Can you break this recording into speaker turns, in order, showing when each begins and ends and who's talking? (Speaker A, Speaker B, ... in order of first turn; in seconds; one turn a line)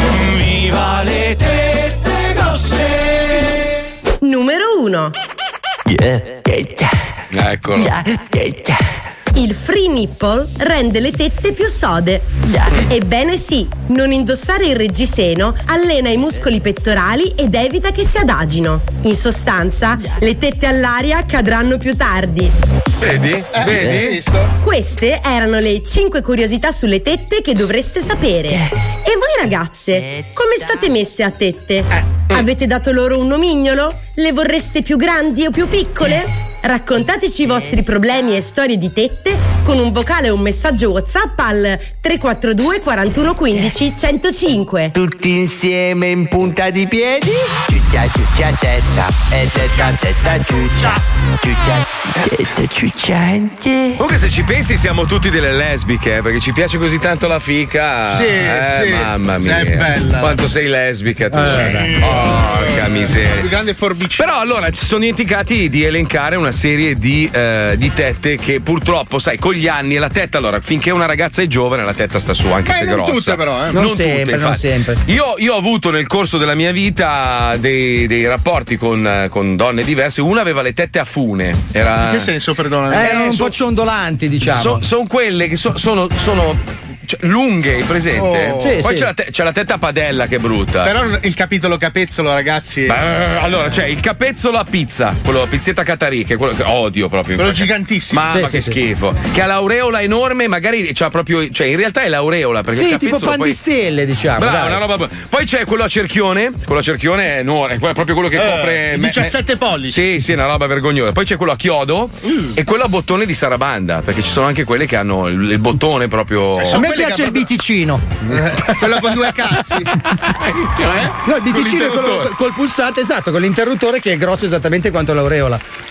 Speaker A: 0.6-1.4
Speaker A: 2.0-2.7
Speaker B: 4.2-5.2
Speaker A: 5.9-6.9
Speaker C: 7.3-8.0
Speaker A: 7.8-8.8
Speaker B: 9.3-22.5
Speaker C: 23.0-24.2
Speaker D: 23.5-24.5
Speaker B: 24.6-44.9
Speaker A: 44.9-54.0
Speaker C: 54.0-63.5
Speaker D: 58.1-60.4
Speaker E: 61.3-61.9
Speaker D: 61.6-64.3
Speaker C: 64.2-82.3
Speaker D: 72.7-73.8
Speaker E: 73.7-75.0
Speaker D: 82.0-83.5
Speaker E: 82.9-84.8
Speaker C: 83.0-83.5
Speaker C: 84.5-90.9
Speaker D: 88.2-88.8
Speaker E: 88.6-89.1
Speaker D: 90.8-93.0
Speaker C: 92.9-103.6
Speaker D: 97.4-98.3
Speaker E: 98.3-98.8
Speaker E: 102.7-104.8
Speaker C: 104.4-109.4
Speaker D: 108.4-110.0
Speaker C: 109.9-116.8
Speaker D: 116.6-117.5
Speaker E: 116.7-118.1
Speaker D: 118.3-119.9
Speaker C: 120.0-122.3
Speaker E: 121.2-125.6